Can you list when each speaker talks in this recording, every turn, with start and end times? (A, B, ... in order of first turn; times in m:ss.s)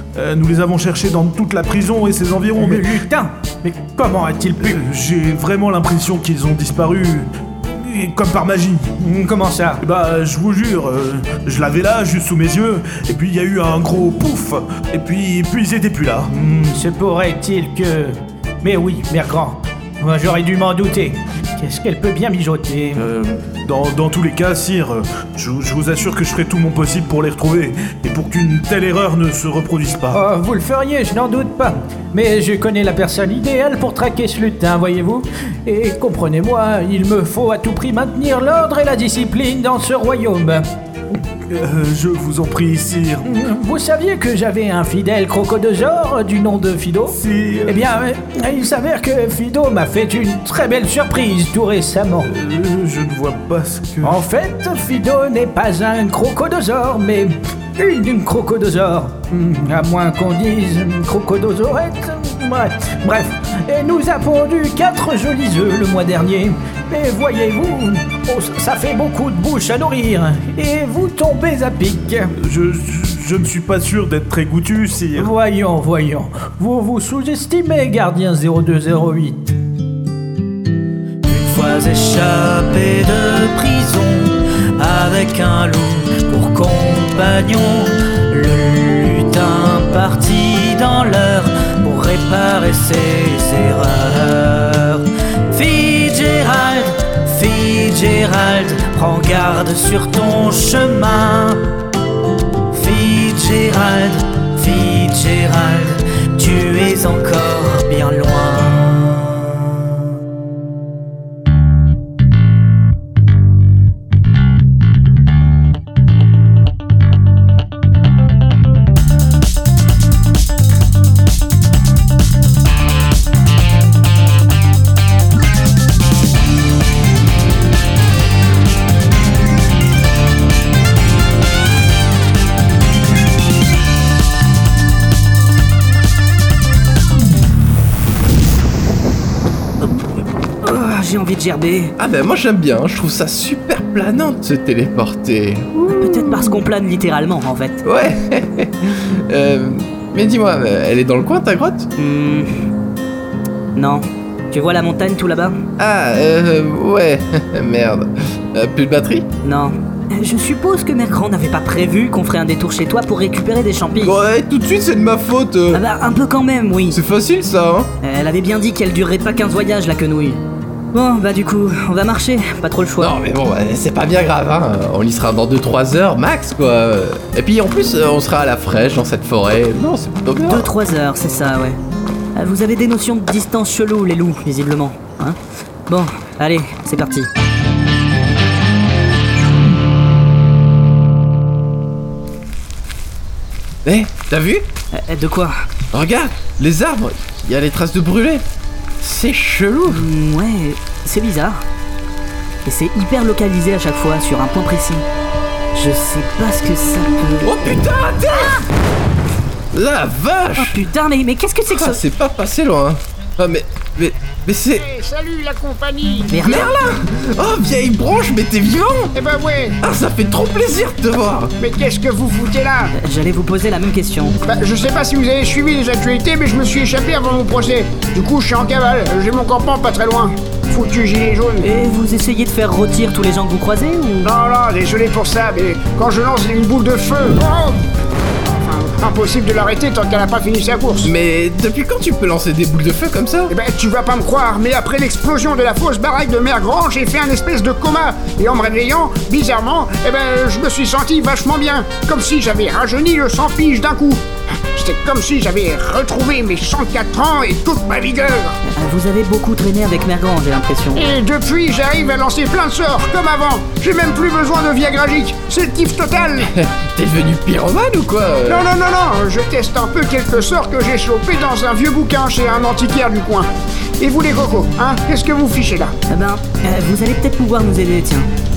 0:00.2-0:02.7 A
0:02.6-0:04.8 B
0:04.6-0:08.9 A
0:09.0-0:09.8 B
0:09.8-0:16.3 A
0:16.3-0:23.0 B
0:23.0-0:30.2 A
0:30.1-0:40.7 B
0:41.1-0:43.2 A
0:43.2-0:52.3 B
0:47.1-0:47.8 A
0:52.3-0:54.2 A
0:54.0-1:12.3 B
1:12.3-1:15.3 A
1:15.1-1:19.5 B
1:21.2-1:41.6 C
1:42.7-1:50.0 C
2:19.8-2:20.1 C
2:20.6-2:21.9 C
2:22.0-2:26.6 D
2:25.9-2:27.8 C
2:27.8-2:31.9 D
2:32.0-2:32.5 C
2:33.8-2:35.6 C
2:35.8-2:39.2 D
2:39.4-2:44.2 C
2:44.0-2:45.8 D
2:45.7-2:47.0 C
2:46.9-2:47.9 D
2:48.0-2:50.4 C
2:50.9-2:53.1 C
2:53.0-3:00.7 D
3:00.4-3:01.8 C
3:02.4-3:07.3 C
3:13.8-3:14.7 D
3:14.9-3:15.5 C
3:15.9-3:18.4 D
3:19.0-3:20.1 D
3:19.9-3:21.6 C
3:22.6-3:25.0 C
3:25.7-3:27.5 C
3:27.4-3:28.6 D
3:29.7-3:30.8 D
3:30.6-3:32.0 C
3:31.7-3:34.8 D
3:34.7-3:36.4 E
3:36.3-3:36.7 C
3:36.4-3:39.1 D
3:39.1-3:39.8 E
3:39.8-3:41.5 D
3:41.6-3:42.9 E
3:43.0-3:44.4 C
3:44.4-3:51.7 E
3:51.6-3:54.3 C
3:54.2-3:57.8 E
3:58.4-4:01.1 E
4:01.0-4:03.5 D
4:03.5-4:14.2 E
4:14.7-4:18.6 E
4:18.7-4:21.0 C
4:20.9-4:26.5 E
4:26.4-4:28.7 D
4:28.5-4:35.9 E
4:36.1-4:38.3 C